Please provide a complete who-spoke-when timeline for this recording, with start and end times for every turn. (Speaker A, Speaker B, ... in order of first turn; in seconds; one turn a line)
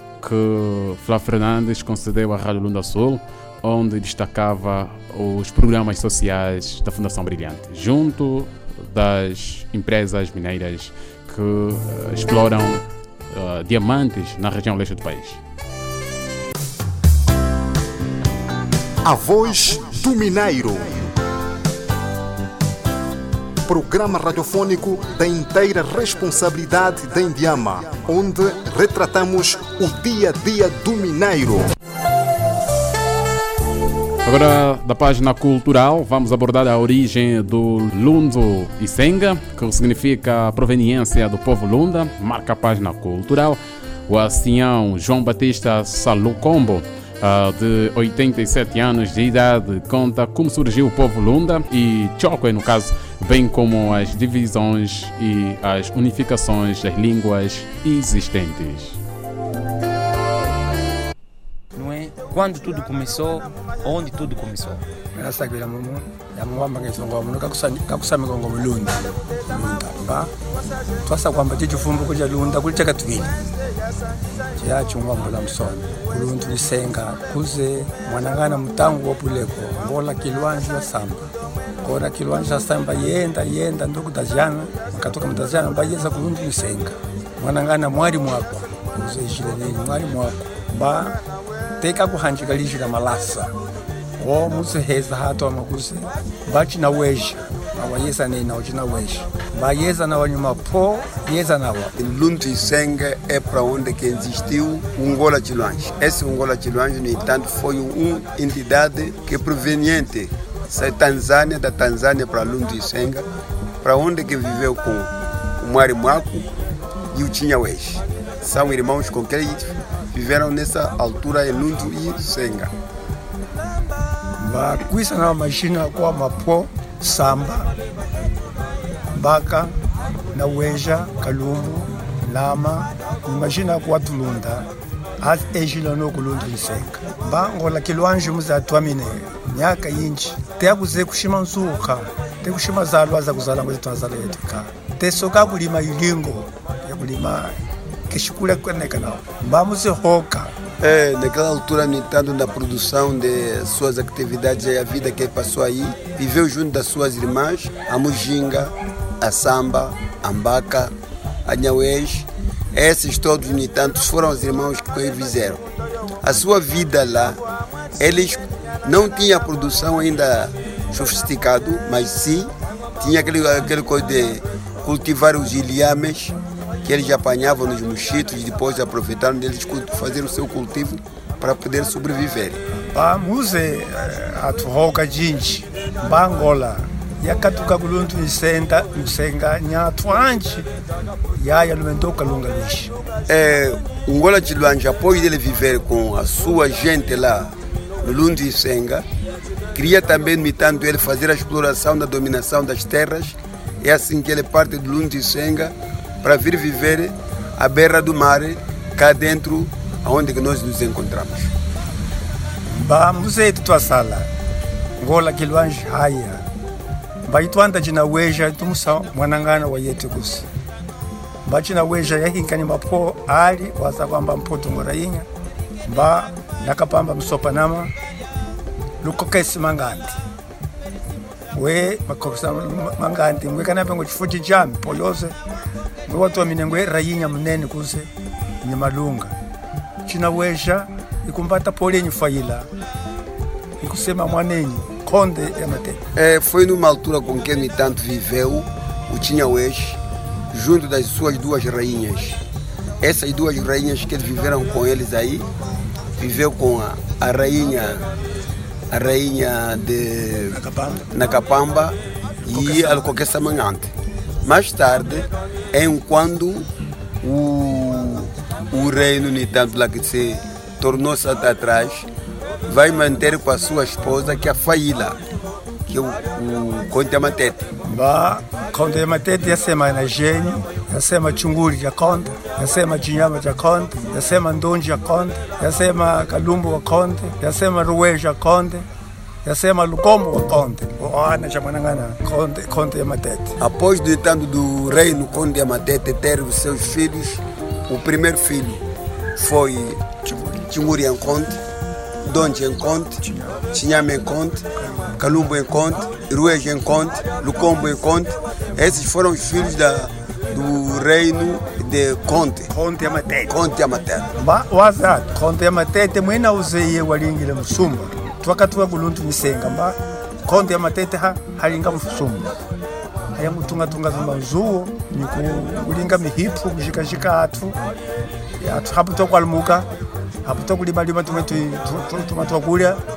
Speaker A: 0.2-15.4
Speaker B: 19.0-21.1
Speaker B: 23.6-31.7
Speaker A: 34.2-59.0
Speaker C: 61.7-64.8
Speaker D: 65.2-70.3
Speaker D: 71.0-73.4
Speaker D: 74.6-91.2
Speaker D: 91.8-93.5
Speaker D: 94.2-101.9
Speaker E: 102.0-113.2
Speaker E: 113.8-116.5
Speaker E: 117.1-122.7
Speaker D: 124.4-127.7
Speaker D: 129.1-129.7
Speaker D: 130.3-134.7
Speaker D: 135.2-147.6
Speaker D: 148.1-150.5
Speaker E: 150.8-160.9
Speaker E: 161.4-165.6
Speaker E: 166.2-167.4
Speaker E: 168.0-182.6
Speaker D: 182.9-190.7
Speaker D: 191.4-192.9
Speaker E: 193.3-199.0
Speaker E: 199.7-211.5
Speaker D: 212.8-214.3
Speaker D: 215.0-216.4
Speaker D: 217.2-220.5
Speaker D: 221.4-225.3
Speaker D: 225.8-227.9
Speaker D: 229.0-230.2
Speaker D: 231.5-235.3
Speaker D: 236.1-238.1
Speaker D: 238.6-239.3
Speaker D: 240.0-242.7
Speaker D: 243.8-246.0
Speaker E: 246.2-250.0
Speaker E: 250.5-252.4
Speaker E: 253.0-255.5
Speaker E: 256.2-258.0
Speaker E: 258.9-263.9
Speaker D: 260.5-261.1
Speaker D: 262.5-263.2
Speaker E: 264.4-266.7
Speaker E: 267.2-272.1
Speaker E: 272.7-275.2
Speaker E: 275.9-277.7
Speaker D: 277.8-288.9
Speaker D: 289.4-293.5
Speaker E: 293.6-298.8
Speaker E: 299.4-301.6
Speaker E: 302.2-304.6
Speaker E: 305.2-312.7
Speaker D: 312.7-313.6
Speaker E: 313.5-314.3
Speaker D: 314.3-322.5
Speaker D: 323.3-327.8
Speaker D: 328.6-329.9
Speaker D: 330.4-333.0